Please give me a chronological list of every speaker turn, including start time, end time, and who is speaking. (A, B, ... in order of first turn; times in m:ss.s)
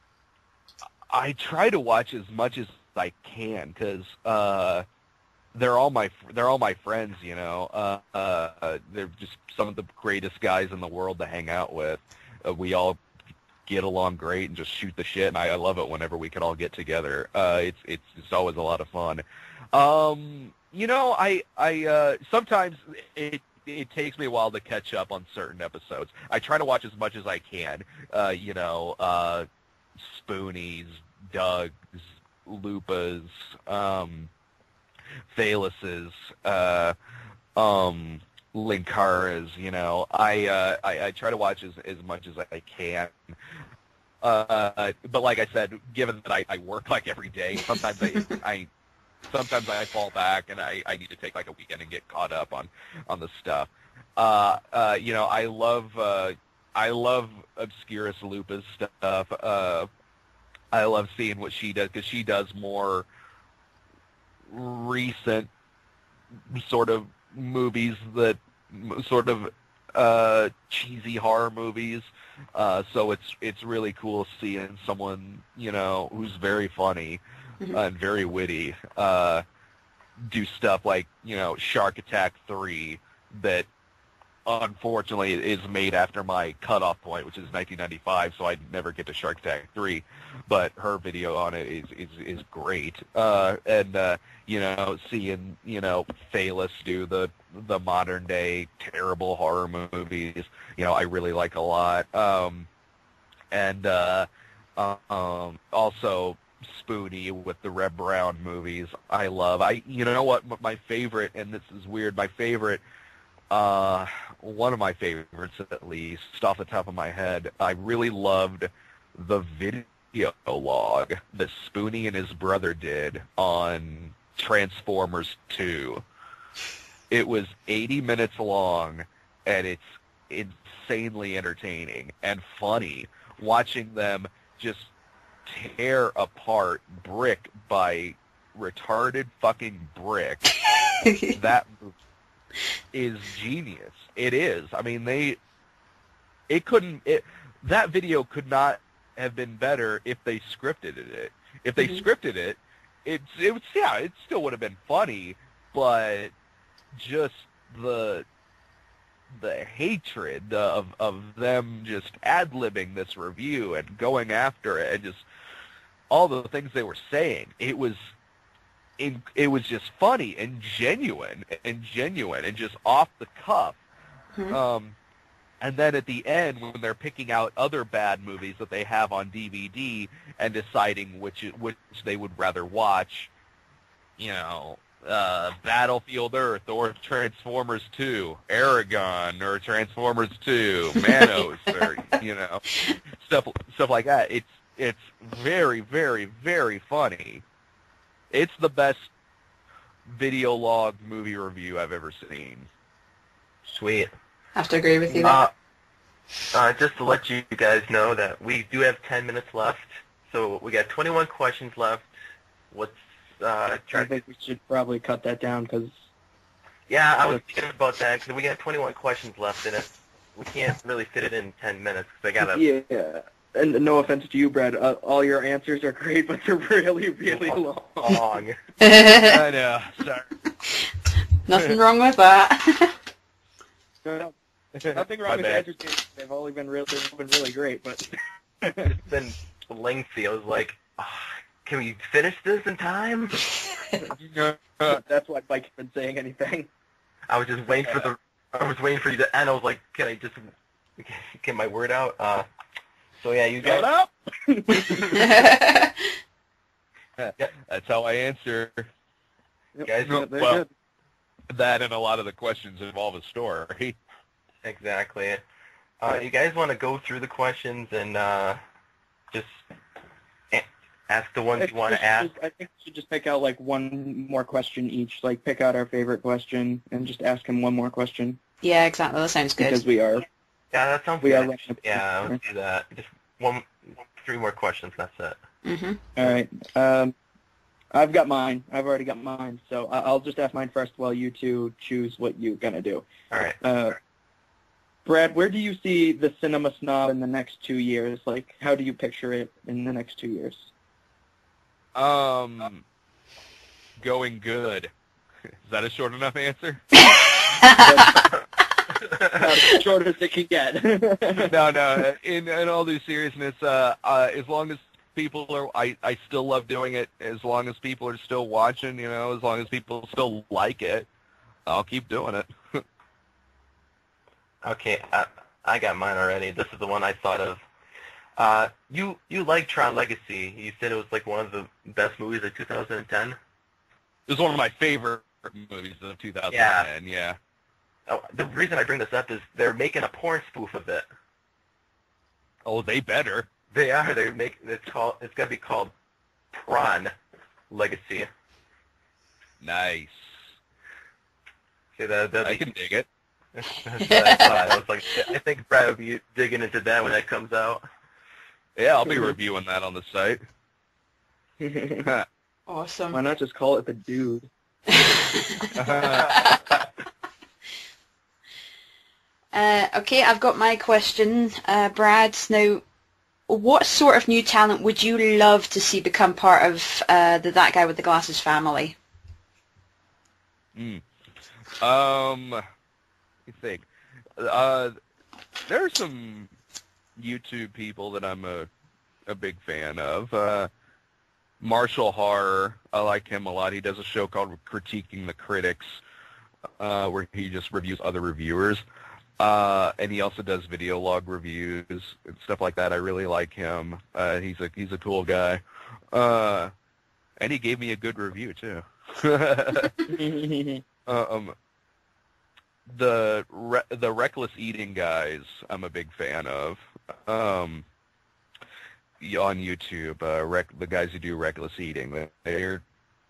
0:01.1-0:04.8 A
0:05.5-0:13.0 A
0:13.7-0:34.3 A
0:35.3-0:37.0 A
0:37.6-0:43.3 A
0:44.2-0:48.7 A
0:49.3-0:59.9 A
1:00.7-1:03.1 A
1:04.5-1:05.5 A
1:06.5-1:19.4 A
1:20.2-1:23.7 A
1:24.5-1:42.7 A
1:43.5-1:52.8 A
1:53.5-2:06.0 A
2:07.1-2:14.9 A
2:15.4-2:20.5 A
2:21.3-2:21.9 A
2:22.9-2:25.4 A
2:26.5-2:36.3 A
2:37.0-2:38.3 A
2:39.3-2:45.2 A
2:46.1-2:48.0 A
2:49.0-2:53.8 A
2:54.5-2:55.0 A
2:55.6-3:03.3 A
3:04.2-3:17.4 A
3:11.0-3:11.8 B
3:18.3-3:19.1 A
3:20.1-3:22.7 A
3:23.7-3:24.1 C
3:24.6-3:25.4 B
3:25.1-3:25.4 D
3:25.2-3:25.5 C
3:26.5-3:32.1 C
3:32.7-3:34.2 C
3:33.9-3:36.1 D
3:36.9-3:42.6 C
3:42.5-3:48.2 D
3:47.3-3:48.6 C
3:48.8-3:49.4 B
3:49.2-3:50.3 A
3:51.4-3:53.0 B
3:54.0-3:54.3 D
3:54.8-3:55.7 A
3:54.9-3:59.0 D
3:58.9-4:03.5 C
4:04.2-4:05.0 A
4:04.8-4:06.7 D
4:07.3-4:12.5 C
4:13.2-4:13.9 C
4:13.6-4:13.9 D
4:13.7-4:14.1 A
4:14.4-4:15.3 D
4:15.1-4:16.1 B
4:17.2-4:18.9 A
4:19.8-4:20.7 D
4:19.8-4:20.2 C
4:20.0-4:20.6 A
4:21.5-4:24.0 A
4:24.6-4:25.4 C
4:26.0-4:28.6 C
4:29.3-4:29.6 C
4:30.5-4:32.3 C
4:31.6-4:38.4 D
4:38.6-4:39.8 B
4:39.6-4:40.3 D
4:40.7-4:45.4 C
4:41.2-4:42.4 D
4:45.6-4:46.0 B
4:46.2-4:47.2 D
4:47.9-4:53.1 D
4:53.6-4:54.0 D
4:55.0-5:00.7 D
5:02.0-5:02.8 A
5:04.0-5:04.9 A
5:05.6-5:06.8 A
5:07.0-5:08.2 B
5:07.8-5:08.3 D
5:09.2-5:11.6 D
5:11.4-5:21.1 A
5:21.7-5:22.8 A
5:24.6-5:27.6 C
5:28.4-5:33.4 C
5:34.3-5:37.4 A
5:36.5-5:36.9 C
5:38.1-5:41.0 C
5:42.6-5:43.5 A
5:43.7-5:45.9 C
5:46.5-5:47.1 C
5:47.7-5:48.3 C
5:49.6-5:50.4 A
5:52.0-5:52.6 C
5:52.4-5:53.1 A
5:53.6-5:57.8 C
5:54.0-5:54.5 B
5:54.3-5:54.8 A
5:58.8-6:00.4 A
6:01.6-6:02.1 D
6:02.7-6:03.2 B
6:03.1-6:04.5 D
6:04.9-6:06.8 B
6:05.8-6:06.6 A
6:09.5-6:12.8 B
6:13.5-6:19.0 B
6:20.8-6:21.0 A
6:21.8-6:22.6 A
6:23.5-6:25.0 A
6:25.7-6:26.5 A
6:27.2-6:28.7 A
6:29.3-6:30.7 A
6:31.6-6:36.0 A
6:36.8-6:38.8 A
6:39.4-6:46.7 A
6:47.4-6:50.0 A
6:50.0-6:50.8 D
6:51.1-6:51.6 A
6:52.9-6:57.8 A
6:59.2-7:02.8 A